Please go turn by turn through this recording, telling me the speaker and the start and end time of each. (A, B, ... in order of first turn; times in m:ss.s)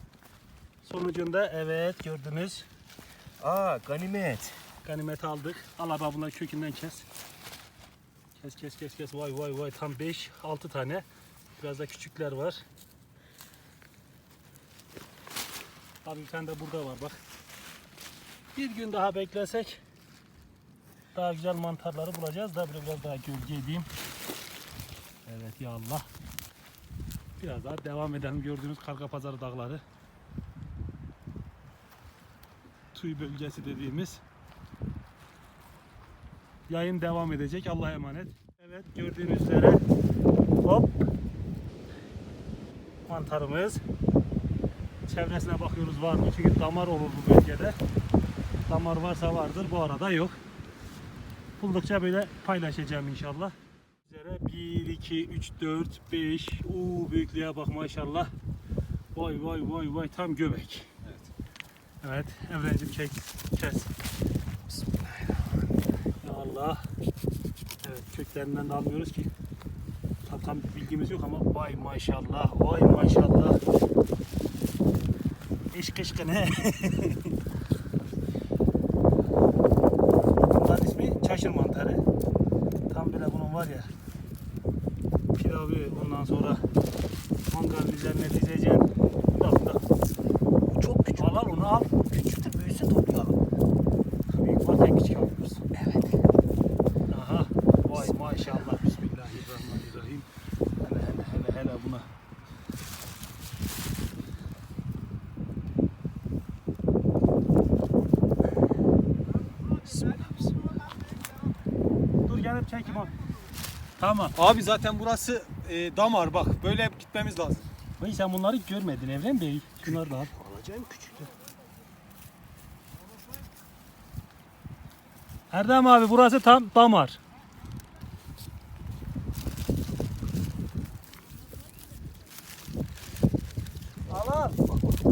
0:00.8-0:02.7 A
0:03.4-0:04.6 B
0:04.8-0:07.1 A
0:08.4-0:11.0 A
0:11.6-0:12.6 A
0:16.0-0:17.2 A
0:18.6-0:19.8 A
0:21.1-0:23.9 A
0:25.3-0:26.1 A
0:27.4-0:29.8 A
0:32.9-0:34.2 A
0:36.7-0:39.8 A
0:40.6-0:41.1 A
0:43.1-0:43.8 A
0:45.1-0:47.8 A
0:48.7-0:50.4 A
0:51.6-0:53.5 A
0:54.0-0:58.3 A
0:59.1-1:00.9 A
1:02.0-1:03.9 A
1:04.7-1:05.5 B
1:06.2-1:06.8 A
1:07.8-1:09.3 A
1:10.2-1:13.6 A
1:15.7-1:17.4 A
1:20.5-1:22.0 A
1:22.9-1:23.9 A
1:25.3-1:26.6 A
1:27.5-1:29.8 A
1:30.8-1:33.4 A
1:34.3-1:35.7 A
1:37.1-1:40.3 A
1:40.8-1:42.1 A
1:49.9-1:50.5 A
1:52.3-1:53.2 A
1:54.0-1:54.4 A
1:54.4-1:57.7 C
1:58.0-2:01.2 A
2:05.5-2:07.2 A
2:14.1-2:14.6 A